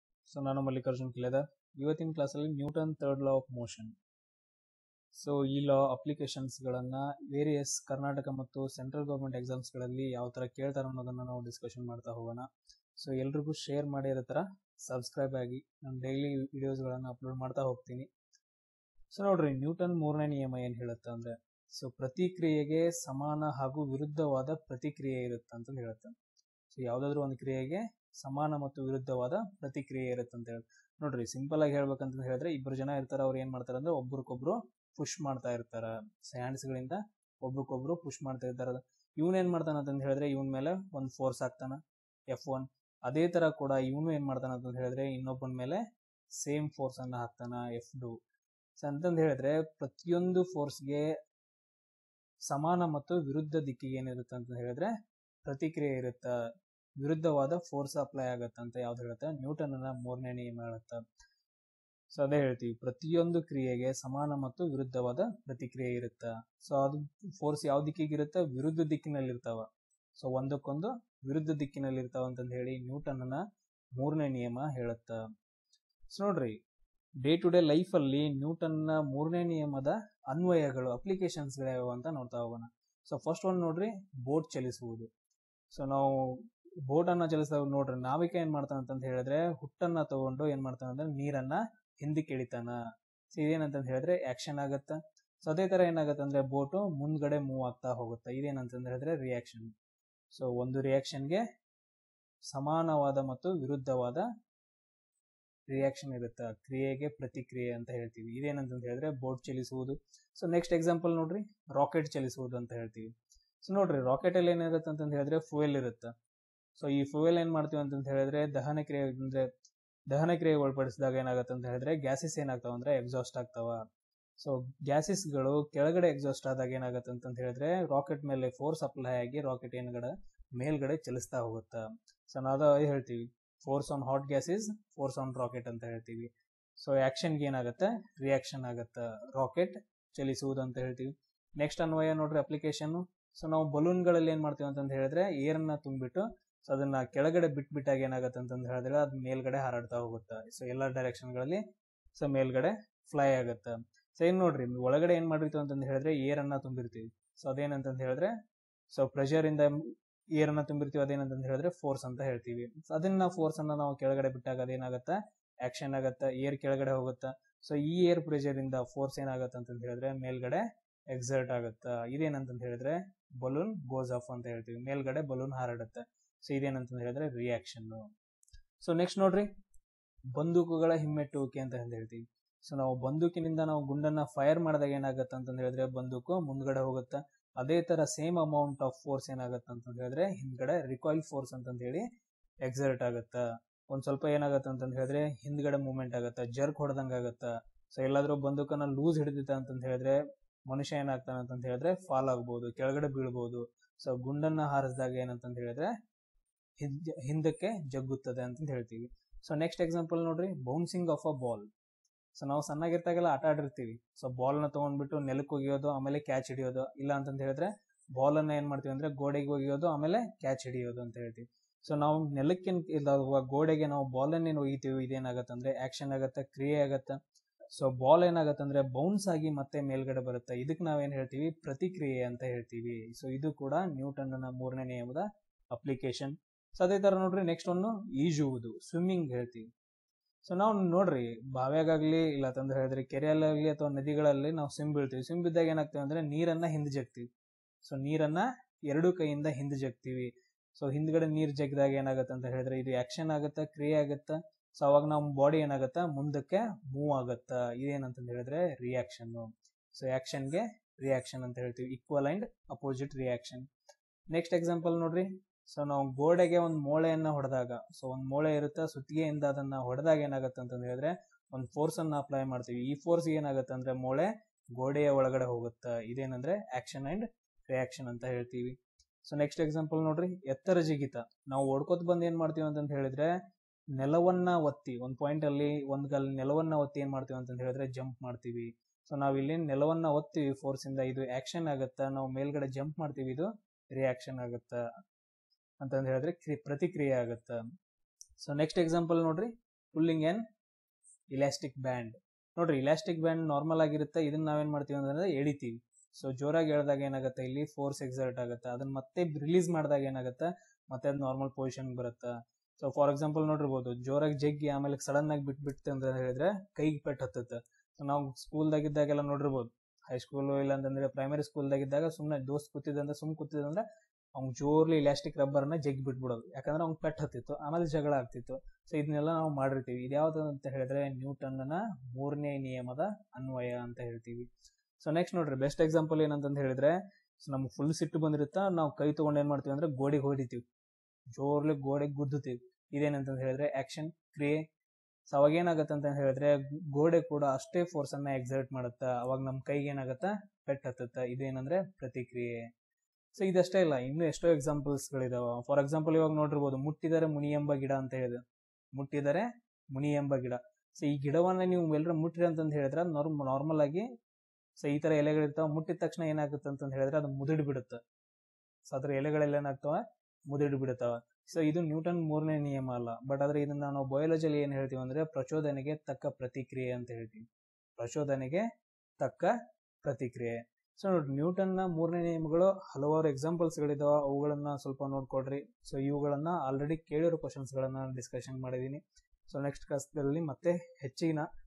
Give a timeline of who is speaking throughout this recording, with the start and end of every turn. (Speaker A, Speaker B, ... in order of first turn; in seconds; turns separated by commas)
Speaker A: 0.3-3.9, Speaker A: 5.2-12.5, Speaker A: 13.0-18.1, Speaker A: 19.1-26.1, Speaker A: 26.7-41.8, Speaker A: 42.3-45.8, Speaker A: 46.4-48.1, Speaker A: 48.8-51.1, Speaker A: 52.5-54.9, Speaker A: 55.5-56.3, Speaker A: 57.0-61.0, Speaker A: 62.1-69.7, Speaker A: 70.2-73.4, Speaker A: 74.0-75.2, Speaker A: 76.1-76.6, Speaker A: 77.2-85.1, Speaker A: 85.7-92.8, Speaker A: 93.3-99.7, Speaker A: 100.3-101.4, Speaker A: 102.5-104.3, Speaker A: 105.7-113.1, Speaker A: 113.6-116.1, Speaker A: 116.8-119.5, Speaker A: 120.1-123.8, Speaker A: 124.4-151.6, Speaker A: 152.2-158.3, Speaker A: 158.9-159.7, Speaker A: 160.4-178.1, Speaker A: 178.8-179.5, Speaker A: 180.3-192.0, Speaker A: 192.7-205.9, Speaker A: 206.8-211.7, Speaker A: 212.4-227.2, Speaker A: 227.8-239.7, Speaker A: 240.5-247.3, Speaker A: 247.8-263.6, Speaker A: 264.3-283.3, Speaker A: 284.0-294.8, Speaker A: 295.8-297.6, Speaker A: 298.4-300.4, Speaker A: 301.3-323.8, Speaker A: 324.4-334.5, Speaker A: 335.0-340.6, Speaker A: 341.4-344.6, Speaker A: 345.3-352.6, Speaker A: 353.4-358.4, Speaker A: 358.9-364.1, Speaker A: 364.8-368.0, Speaker A: 368.9-377.4, Speaker A: 378.0-378.6, Speaker A: 379.2-379.5, Speaker A: 380.0-391.5